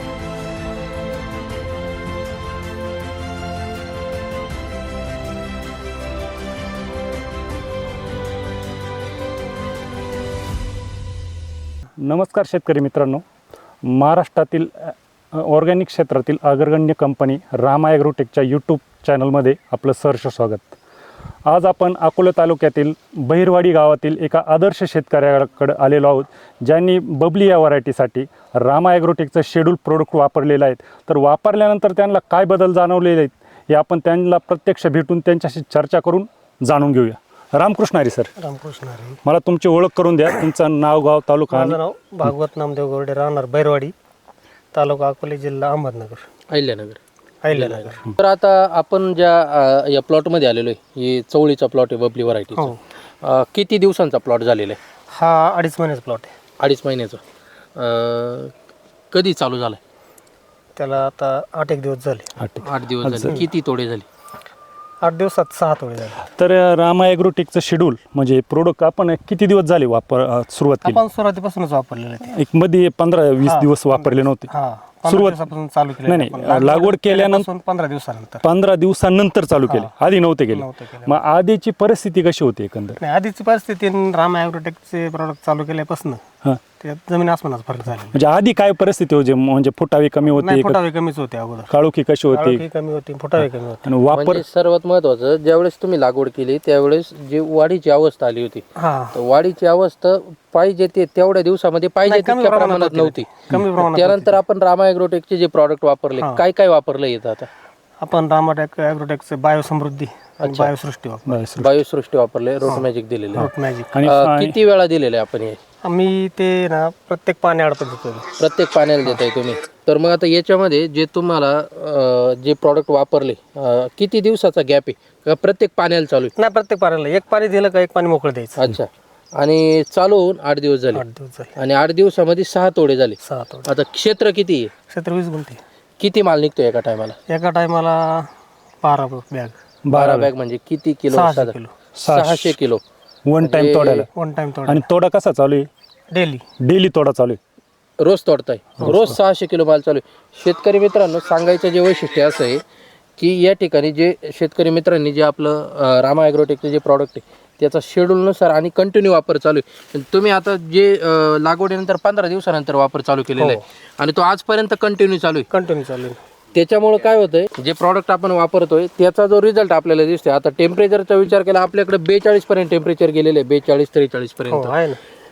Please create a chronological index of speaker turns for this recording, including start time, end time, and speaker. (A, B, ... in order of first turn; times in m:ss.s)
0:12.0-0:13.2 A
0:13.9-0:20.8 A
0:21.5-0:38.3 A
0:38.4-0:39.2 B
0:39.2-0:42.3 A
0:41.5-0:43.9 B
0:44.7-0:46.2 B
0:46.5-0:47.0 C
0:47.4-0:48.0 B
0:47.5-0:54.8 C
0:55.1-0:56.3 B
0:56.6-0:57.2 C
0:57.8-0:58.5 C
0:59.1-0:59.8 C
1:00.8-1:02.3 B
1:02.4-1:03.4 A
1:02.6-1:04.1 C
1:05.0-1:06.3 B
1:06.3-1:11.0 A
1:10.8-1:12.4 B
1:12.3-1:14.5 A
1:13.4-1:18.4 B
1:15.1-1:15.5 A
1:16.0-1:17.5 A
1:18.4-1:23.0 A
1:19.7-1:19.9 B
1:20.5-1:21.2 B
1:23.0-1:26.2 B
1:26.8-1:28.2 B
1:28.1-1:30.8 A
1:30.3-1:31.7 B
1:31.7-1:32.6 A
1:32.3-1:33.9 B
1:33.4-1:34.4 A
1:34.1-1:47.5 C
1:38.8-1:39.2 B
1:42.1-1:44.4 B
1:48.0-1:51.5 B
1:50.4-1:50.7 C
1:51.3-1:51.8 A
1:51.6-1:53.5 C
1:52.7-1:54.0 B
1:53.4-1:54.6 A
1:54.0-1:55.6 C
1:55.8-1:58.3 B
1:58.4-2:06.3 C
2:06.4-2:08.6 B
2:08.6-2:11.0 C
2:10.9-2:11.5 B
2:11.6-2:14.7 C
2:13.2-2:13.7 B
2:14.9-2:15.6 B
2:16.0-2:17.2 C
2:17.3-2:18.3 B
2:18.8-2:19.6 B
2:19.8-2:20.3 A
2:19.9-2:21.6 C
2:21.1-2:21.7 B
2:22.0-2:22.6 A
2:22.1-2:22.8 C
2:23.3-2:24.1 A
2:23.4-2:24.1 C
2:24.1-2:24.8 B
2:24.7-2:25.7 A
2:26.1-2:26.4 B
2:26.6-2:27.4 A
2:28.0-2:32.6 C
2:28.8-2:29.2 A
2:33.2-2:45.5 C
2:45.5-2:46.2 B
2:46.5-2:54.7 C
2:54.5-2:55.0 B